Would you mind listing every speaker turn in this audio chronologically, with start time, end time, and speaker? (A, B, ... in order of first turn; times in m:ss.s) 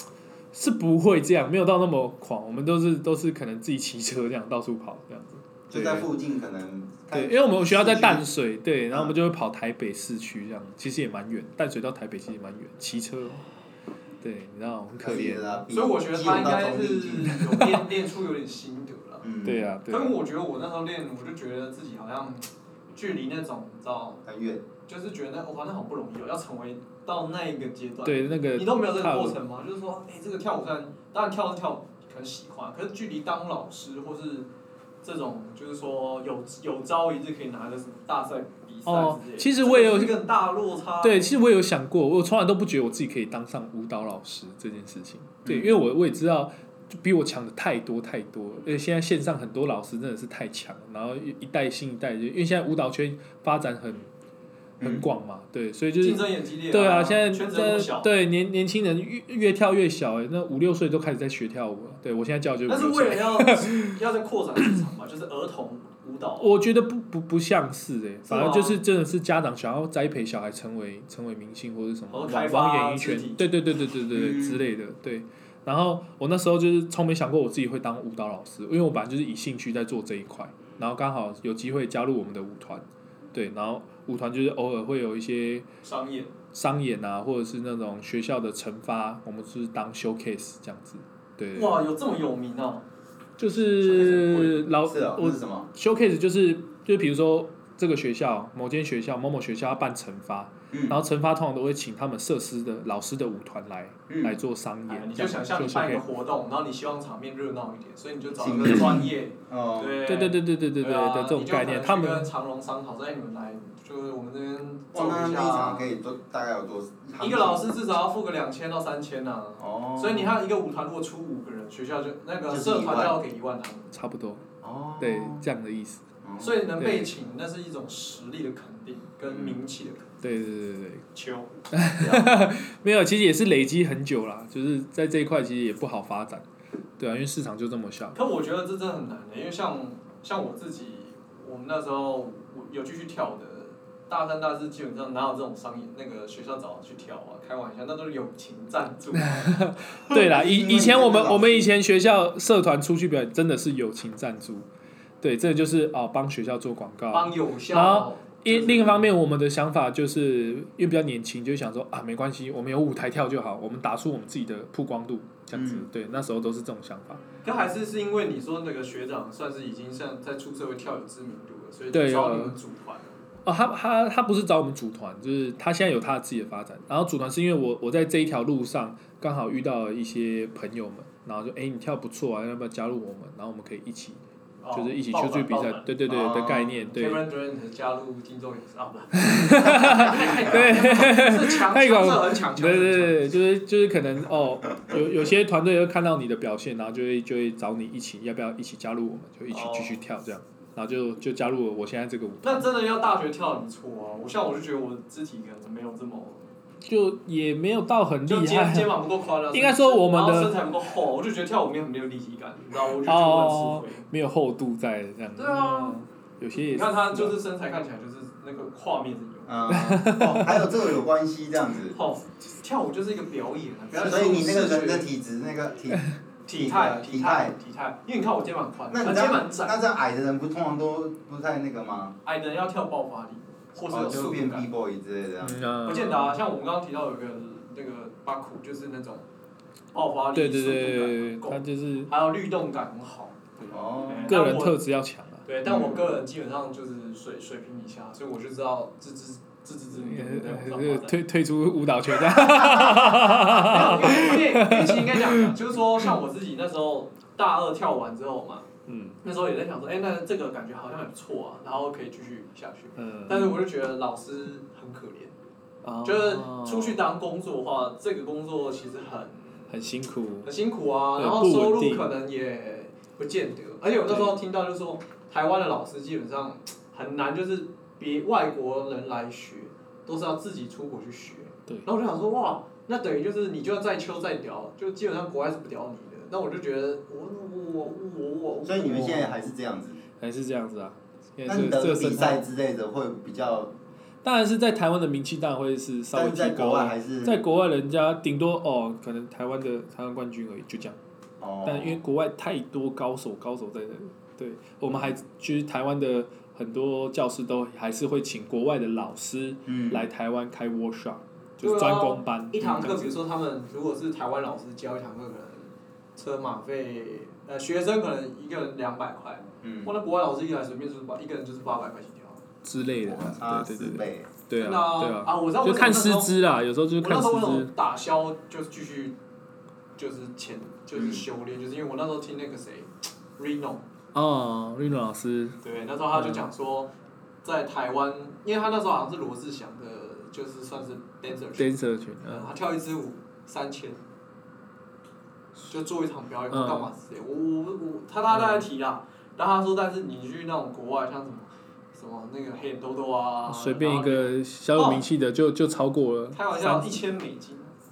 0:00.5-0:06.1 A
0:05.7-0:08.2 B
0:07.1-0:13.4 A
0:14.2-0:15.6 A
0:15.0-0:17.8 B
0:15.7-0:19.3 C
0:19.2-0:19.7 B
0:19.4-0:20.2 A
0:19.9-0:24.2 C
0:24.2-0:24.6 B
0:24.9-0:34.5 C
0:28.0-0:29.4 A
0:35.0-0:41.3 C
0:38.9-0:40.2 A
0:41.0-0:54.1 A
0:45.4-0:45.8 B
0:54.8-0:55.0 B
0:54.8-1:04.0 A
0:56.0-0:58.1 C
1:02.7-1:06.5 C
1:06.4-1:25.7 A
1:08.2-1:08.8 C
1:12.1-1:13.4 C
1:14.1-1:14.6 B
1:25.8-1:26.3 C
1:26.5-1:31.8 A
1:31.5-1:32.8 C
1:33.4-1:46.0 A
1:33.8-1:34.6 C
1:34.8-1:35.7 B
1:40.7-1:41.0 B
1:44.1-1:44.4 B
1:44.9-1:55.9 C
1:48.4-1:50.0 B
1:50.0-1:52.3 A
1:54.9-1:57.6 B
1:57.2-2:03.9 C
1:59.6-2:00.4 B
2:02.5-2:03.2 B
2:03.9-2:04.4 A
2:04.6-2:05.4 B
2:05.0-2:06.0 A
2:06.2-2:06.6 B
2:06.4-2:10.1 C
2:06.8-2:07.1 A
2:09.2-2:09.6 B
2:10.2-2:11.0 A
2:11.1-2:11.5 C
2:11.7-2:16.4 A
2:12.0-2:12.3 B
2:17.0-2:18.2 A
2:18.1-2:29.5 C
2:29.2-2:34.7 A
2:30.1-2:31.7 B
2:35.2-2:47.2 A
2:37.1-2:39.1 C
2:45.5-2:45.8 B
2:47.4-2:53.2 C
2:51.9-2:52.6 A
2:53.4-3:04.2 A
3:04.6-3:05.9 C
3:04.7-3:07.2 A
3:06.1-3:06.7 B
3:06.9-3:13.2 C
3:09.1-3:22.7 A
3:19.5-3:20.0 C
3:22.4-3:26.5 C
3:26.8-3:29.0 A
3:28.3-3:34.0 C
3:29.5-3:30.6 A
3:32.8-3:37.4 A
3:35.4-3:36.0 C
3:36.6-3:39.7 C
3:39.5-3:42.0 B
3:39.7-3:40.7 A
3:41.9-3:45.1 C
3:43.9-3:47.5 B
3:46.5-3:49.8 C
3:48.9-3:52.2 B
3:52.2-3:54.7 C
3:53.9-3:55.6 B
3:55.4-3:56.4 A
3:55.8-3:59.2 C
3:59.9-4:04.8 C
4:00.3-4:02.1 A
4:03.7-4:04.4 B
4:04.3-4:05.5 A
4:05.4-4:11.2 C
4:05.6-4:06.2 B
4:09.9-4:15.6 A
4:12.4-4:18.7 C
4:18.8-4:19.2 A
4:19.2-4:25.3 C
4:23.0-4:23.6 A
4:25.8-4:27.0 A
4:26.0-4:29.6 C
4:29.7-4:30.5 A
4:30.4-4:49.5 C
4:31.2-4:32.1 A
4:34.1-4:34.4 A
4:48.6-4:50.0 B
4:50.2-4:52.4 A
4:51.5-4:53.7 B
4:54.2-5:01.0 A
4:56.1-4:57.4 B
5:01.4-5:02.0 B
5:01.6-5:13.2 A
5:09.7-5:10.1 B
5:11.6-5:22.4 C
5:19.6-5:19.9 B
5:22.6-5:27.7 A
5:23.1-5:24.3 B
5:24.6-5:26.3 C
5:27.0-5:29.2 C
5:30.0-5:33.8 C
5:30.9-5:31.2 B
5:34.1-5:35.6 A
5:35.6-5:36.9 C
5:36.1-5:36.5 A
5:37.4-5:41.7 C
5:41.6-5:42.5 A
5:42.2-5:44.0 C
5:45.7-5:55.0 C
5:46.5-5:46.9 A
5:48.3-5:48.7 A
5:53.5-5:57.0 A
5:56.3-5:57.7 C